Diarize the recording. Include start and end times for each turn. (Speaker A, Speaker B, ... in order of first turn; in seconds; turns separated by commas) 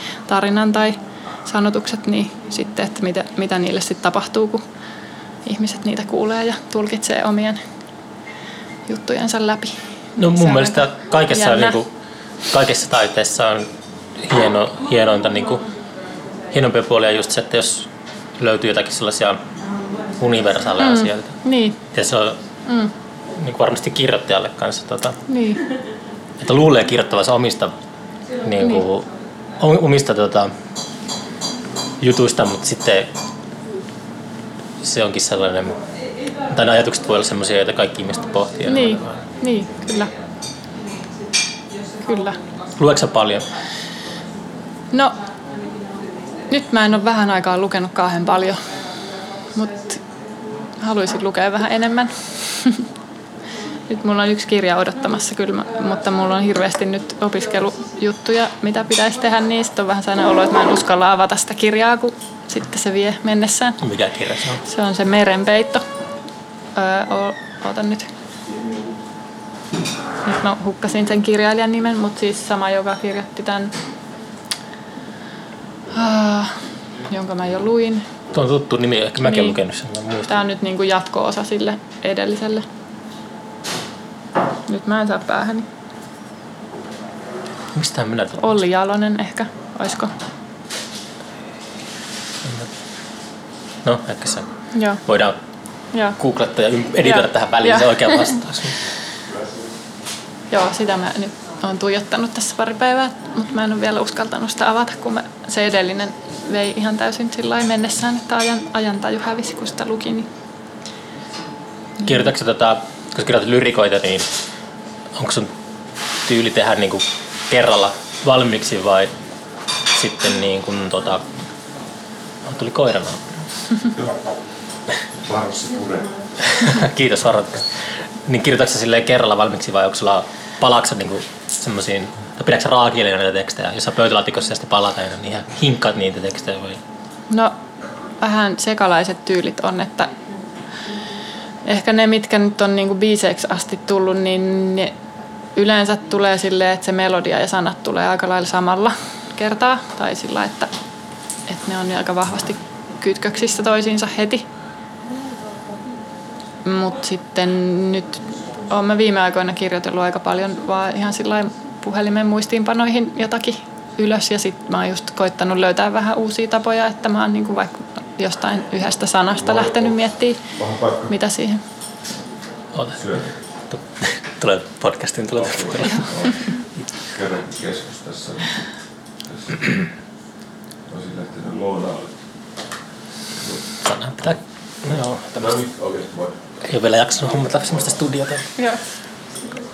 Speaker A: 0.3-4.6, Speaker A: 5.4-7.6, Speaker A: 8.9-11.8, Speaker B: 10.2-11.9, Speaker B: 12.5-15.6, Speaker B: 16.5-19.4, Speaker B: 20.2-21.4, Speaker A: 20.8-21.8, Speaker B: 21.9-22.4, Speaker A: 22.6-22.9, Speaker B: 23.3-25.2, Speaker A: 25.3-25.6, Speaker B: 26.4-27.7, Speaker B: 28.4-29.1, Speaker A: 28.6-28.8, Speaker B: 29.6-30.5, Speaker B: 32.0-33.1, Speaker B: 34.8-35.8, Speaker B: 36.5-39.2, Speaker A: 38.6-40.1, Speaker A: 42.0-42.4, Speaker B: 42.8-43.5, Speaker A: 44.9-45.2, Speaker A: 46.5-48.6, Speaker A: 49.5-50.0, Speaker A: 50.8-52.9, Speaker A: 53.9-63.8, Speaker B: 63.8-64.6, Speaker A: 64.6-65.8, Speaker A: 66.7-68.1, Speaker A: 70.2-73.7, Speaker A: 75.9-78.1, Speaker B: 78.3-80.3, Speaker A: 79.2-79.6, Speaker A: 80.3-82.7, Speaker A: 84.7-85.7, Speaker B: 87.7-88.6, Speaker A: 88.4-90.1, Speaker B: 93.8-94.5, Speaker A: 94.7-95.0, Speaker B: 95.0-95.4, Speaker A: 95.9-96.2, Speaker B: 96.1-98.8, Speaker A: 97.0-98.4, Speaker A: 100.5-110.3, Speaker B: 112.0-114.3, Speaker B: 115.1-115.5, Speaker B: 116.2-119.1, Speaker B: 119.9-121.2, Speaker B: 122.4-123.3, Speaker C: 125.2-126.1, Speaker B: 126.4-136.8, Speaker A: 137.3-137.6, Speaker A: 138.2-140.2, Speaker A: 141.6-144.9, Speaker A: 145.5-150.7, Speaker A: 151.5-154.5, Speaker A: 156.6-170.5, Speaker C: 169.5-169.9, Speaker C: 170.6-171.1, Speaker A: 171.1-171.6, Speaker B: 172.7-176.3, Speaker C: 175.7-176.3, Speaker C: 177.0-178.7, Speaker C: 179.2-179.9, Speaker C: 180.9-182.1, Speaker B: 183.8-185.6, Speaker C: 185.4-186.3, Speaker B: 186.6-188.5, Speaker A: 188.6-188.8